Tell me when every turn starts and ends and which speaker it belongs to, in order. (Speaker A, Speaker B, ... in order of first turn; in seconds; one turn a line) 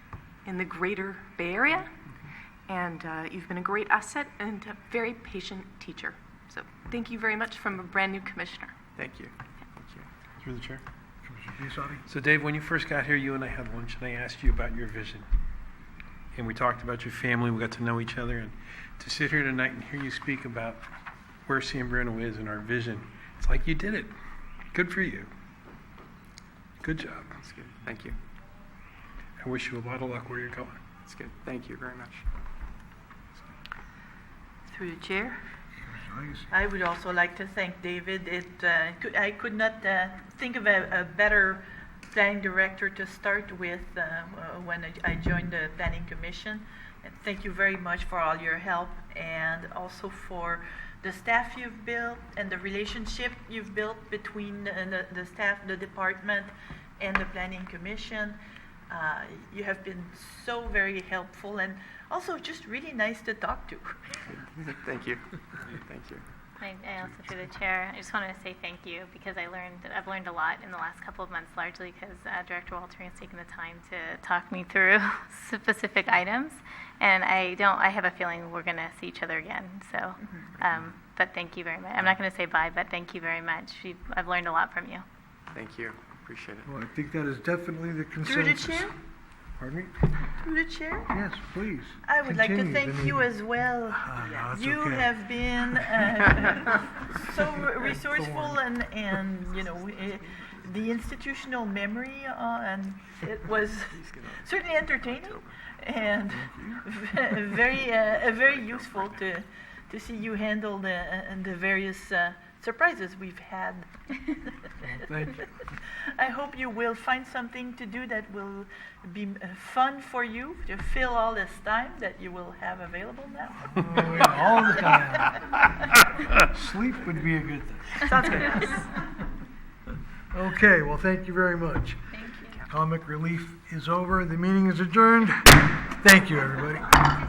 Speaker A: 0.5-1.9
Speaker A: 2.7-8.8
Speaker B: 9.0-10.1
Speaker C: 10.4-10.8
Speaker D: 11.2-12.0
Speaker C: 12.1-15.2
Speaker C: 16.3-20.8
Speaker C: 21.5-24.1
Speaker C: 24.7-25.3
Speaker C: 26.8-27.4
Speaker B: 27.4-28.2
Speaker C: 29.4-30.8
Speaker B: 31.0-32.3
Speaker E: 34.7-35.4
Speaker D: 35.9-36.5
Speaker E: 36.5-58.4
Speaker E: 58.9-64.3
Speaker B: 64.3-66.2
Speaker F: 66.6-85.0
Speaker E: 80.2-80.5
Speaker B: 85.5-86.7
Speaker D: 86.7-88.9
Speaker E: 88.2-89.0
Speaker D: 89.6-89.9
Speaker E: 90.3-91.2
Speaker D: 91.1-96.0
Speaker E: 92.0-114.7
Speaker D: 98.1-98.6
Speaker B: 99.6-101.1
Speaker B: 103.5-105.6
Speaker D: 106.3-106.8
Speaker B: 108.1-109.4
Speaker D: 114.8-115.5
Speaker E: 116.2-124.8
Speaker D: 123.6-125.4
Speaker D: 126.4-128.0
Speaker E: 128.0-128.9
Speaker D: 130.3-137.0
Speaker F: 132.1-132.6